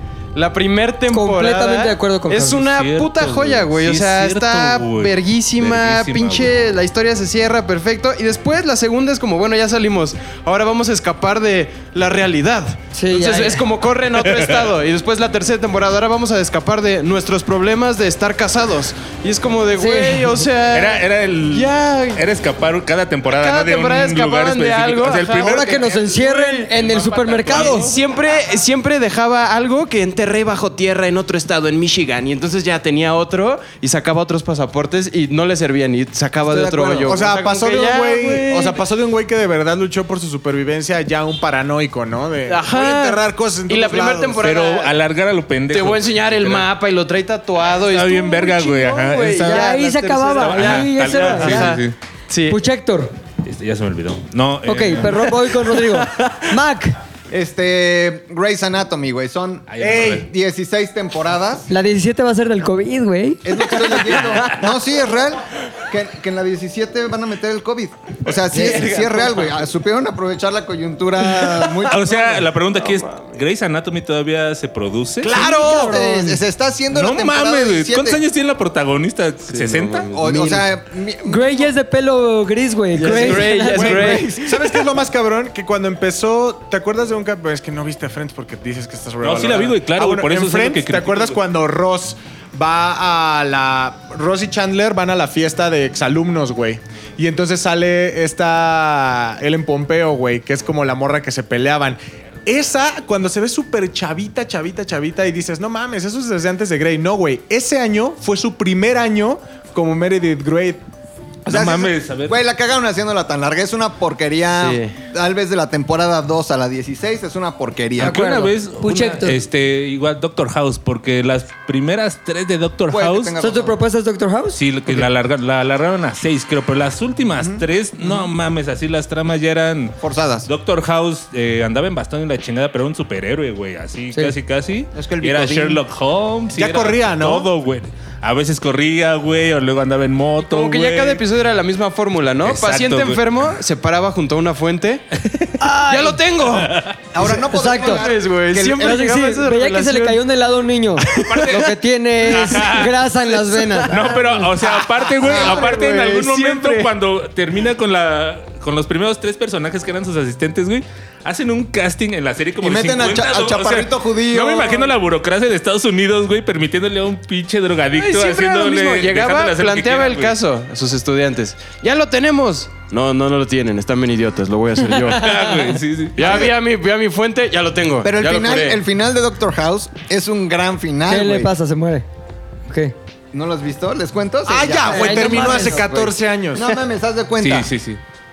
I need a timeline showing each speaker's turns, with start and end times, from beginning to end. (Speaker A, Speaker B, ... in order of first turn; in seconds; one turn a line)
Speaker A: 0.3-22.2
Speaker B: 1.1-2.6
Speaker C: 2.3-6.5
Speaker B: 12.9-13.7
Speaker C: 14.2-14.7
Speaker B: 19.8-20.5
Speaker C: 20.7-25.8
Speaker A: 23.3-38.8
Speaker B: 25.4-27.9
Speaker C: 27.5-27.9
Speaker B: 36.5-37.0
Speaker D: 37.0-44.4
Speaker A: 42.5-44.9
Speaker C: 44.4-46.6
Speaker A: 45.7-52.6
Speaker C: 47.8-49.7
Speaker B: 49.2-51.8
Speaker C: 50.4-52.0
Speaker B: 52.5-53.1
Speaker C: 53.4-55.5
Speaker B: 54.6-57.0
Speaker A: 55.9-56.4
Speaker E: 57.3-61.7
Speaker C: 59.7-60.3
Speaker D: 59.8-60.2
Speaker B: 61.7-63.5
Speaker E: 63.4-72.5
Speaker C: 64.1-64.5
Speaker A: 68.5-69.4
Speaker C: 71.3-75.4
Speaker A: 72.8-73.4
Speaker D: 75.2-76.0
Speaker E: 75.2-78.2
Speaker B: 75.3-76.4
Speaker C: 76.9-80.1
Speaker A: 79.5-80.7
Speaker E: 80.1-81.7
Speaker B: 81.2-84.2
Speaker A: 83.0-84.3
Speaker D: 83.0-110.8
Speaker E: 83.8-84.6
Speaker C: 89.2-91.4
Speaker E: 111.5-118.2
Speaker C: 111.5-112.4
Speaker A: 114.5-115.0
Speaker B: 118.0-119.4
Speaker C: 118.0-123.3
Speaker E: 122.9-123.8
Speaker B: 123.4-125.0
Speaker C: 124.5-141.2
Speaker E: 130.0-130.5
Speaker E: 134.9-135.8
Speaker D: 136.5-137.5
Speaker A: 140.4-145.0
Speaker C: 142.4-143.2
Speaker C: 145.2-145.6
Speaker B: 145.6-146.2
Speaker A: 145.9-146.8
Speaker C: 146.5-146.9
Speaker E: 147.1-149.1
Speaker B: 147.3-148.1
Speaker A: 147.8-150.2
Speaker B: 148.8-154.5
Speaker C: 151.1-153.0
Speaker A: 151.1-151.6
Speaker A: 153.5-153.9
Speaker C: 153.8-170.3
Speaker A: 154.6-156.9
Speaker E: 155.2-155.9
Speaker E: 162.6-164.9
Speaker A: 167.9-175.6
Speaker C: 175.1-176.5
Speaker A: 176.2-178.8
Speaker E: 178.0-181.5
Speaker B: 181.1-182.1
Speaker B: 182.7-182.9
Speaker E: 183.3-187.7
Speaker D: 184.4-186.7
Speaker B: 184.8-185.8
Speaker C: 187.4-188.0